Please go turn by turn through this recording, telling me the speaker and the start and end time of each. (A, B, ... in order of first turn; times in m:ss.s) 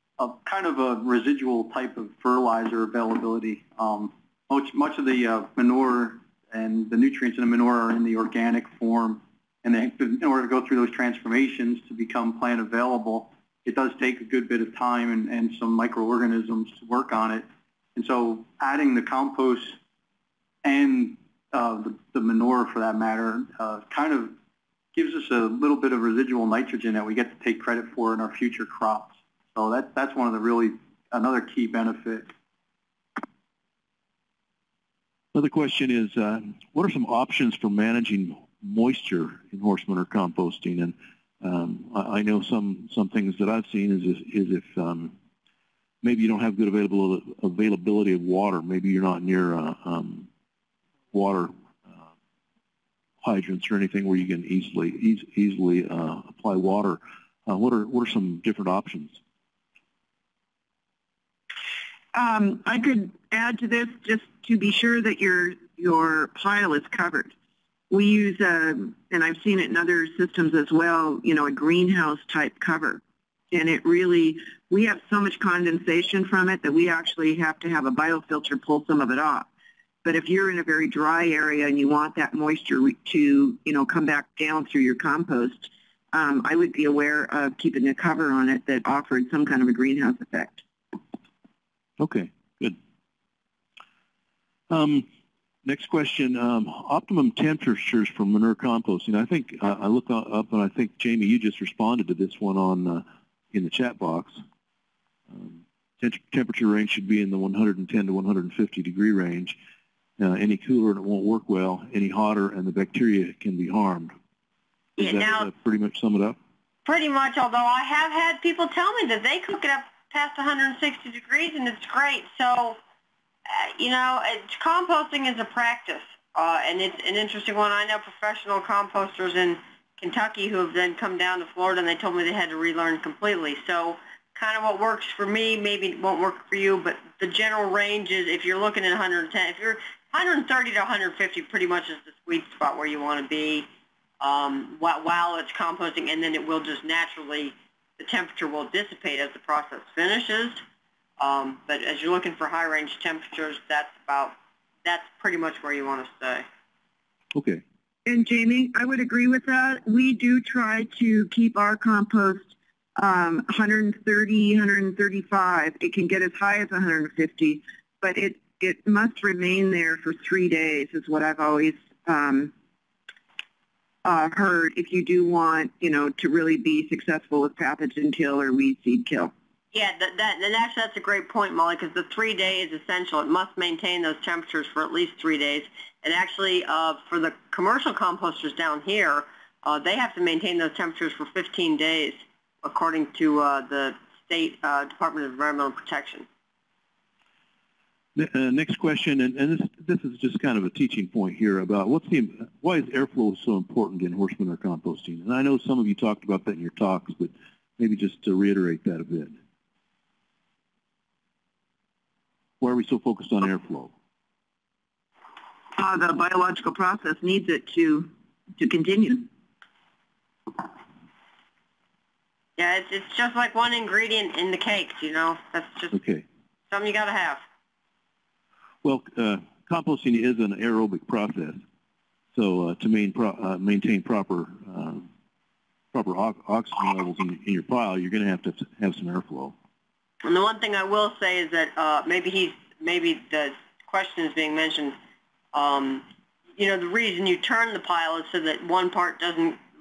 0:00.2-0:19.8 A
0:20.6-0:24.4 A
0:25.0-0:32.3 A
0:35.3-0:45.2 B
0:46.0-0:50.3 B
0:51.1-0:52.0 B
0:53.2-0:59.2 B
1:02.1-1:07.3 C
1:07.9-1:19.5 C
1:20.0-1:30.6 C
1:32.0-1:32.8 B
1:34.7-1:35.1 B
1:35.6-1:44.4 B
1:45.3-1:49.6 B
1:50.2-1:54.1 B
1:55.0-1:55.5 D
1:55.0-1:56.4 B
1:56.8-2:02.8 D
2:03.5-2:23.7 D
2:24.2-2:30.6 D
2:31.2-2:36.5 D
2:37.3-2:37.6 B
2:38.1-2:52.5 C
2:54.0-2:59.3 C
2:59.7-3:16.3 D
3:18.2-3:29.4 B
3:32.6-3:33.9 B
3:35.8-3:39.3 C
3:42.6-3:45.9 D
3:45.9-3:46.2 B
3:46.7-3:47.4 D
3:48.8-3:51.6 B
3:52.3-3:55.1 B
3:55.9-3:59.6 B
4:00.2-4:05.0 D
4:05.5-4:09.6 D